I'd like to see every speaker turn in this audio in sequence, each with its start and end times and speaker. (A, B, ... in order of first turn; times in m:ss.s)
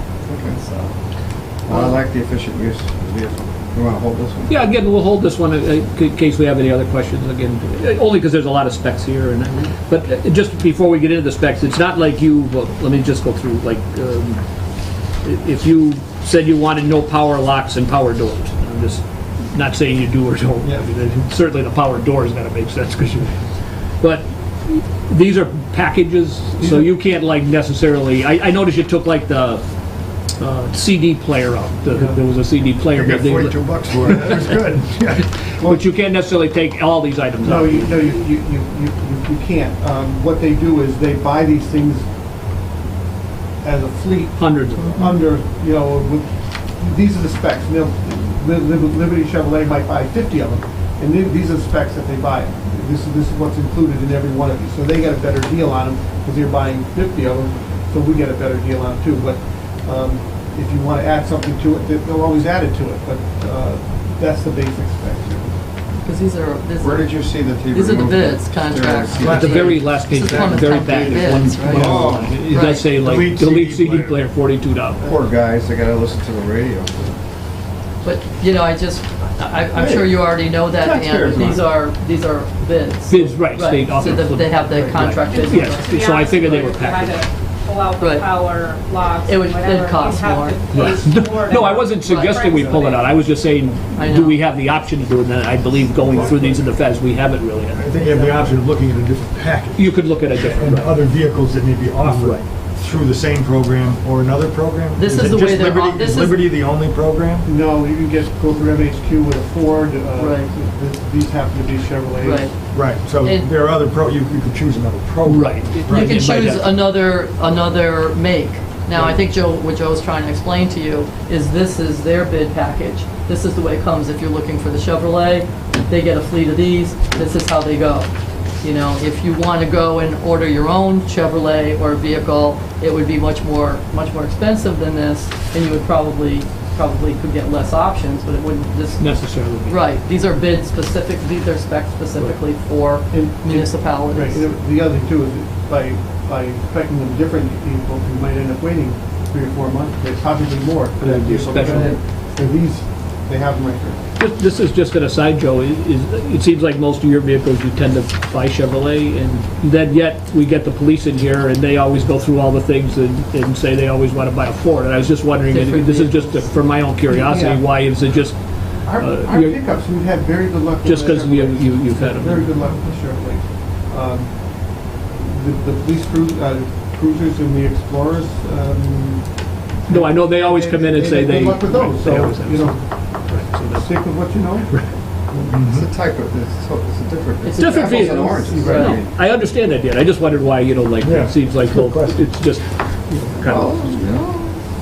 0:00.2-0:00.5 A
0:00.4-0:00.9 B
0:01.6-0:04.7 A
0:01.7-0:02.0 B
0:04.5-0:14.4 C
0:15.2-0:23.4 C
0:24.0-0:29.6 C
0:26.6-0:26.9 D
0:30.4-0:34.4 C
0:31.9-0:32.2 D
0:33.0-0:35.3 E
0:33.9-0:34.3 A
0:34.0-0:34.4 D
0:35.2-0:38.1 C
0:37.4-0:42.1 D
0:43.6-1:05.6 D
0:44.4-0:45.1 C
1:05.9-1:12.9 B
1:06.8-1:09.8 A
1:09.2-1:15.0 C
1:11.7-1:12.4 A
1:12.4-1:14.2 E
1:15.0-1:17.2 A
1:18.0-1:25.8 B
1:19.7-1:21.7 A
1:23.1-1:27.2 C
1:24.7-1:25.1 D
1:25.2-1:33.1 F
1:28.0-1:28.3 B
1:29.2-1:30.8 B
1:30.7-1:37.9 C
1:34.0-1:34.4 B
1:37.7-1:47.5 E
1:38.0-1:38.5 B
1:39.8-1:41.1 C
1:42.0-1:42.4 C
1:45.0-1:46.4 B
1:47.4-1:52.6 D
1:50.2-1:50.5 B
1:52.2-1:53.5 B
1:52.7-1:56.1 E
1:55.2-1:56.8 C
1:55.8-2:08.1 B
1:58.9-1:59.2 D
2:08.6-2:24.4 B
2:19.0-2:19.8 C
2:23.1-2:34.0 D
2:31.0-2:32.0 C
2:31.6-2:31.9 A
2:34.2-2:49.6 C
2:45.5-2:46.6 B
2:47.2-2:47.6 D
2:48.8-3:04.7 D
2:50.8-2:52.5 C
2:59.8-3:04.9 C
3:05.6-3:09.1 A
3:07.4-3:09.0 B
3:07.6-3:14.0 C
3:08.2-3:08.9 D
3:11.0-3:12.2 E
3:13.4-3:14.6 A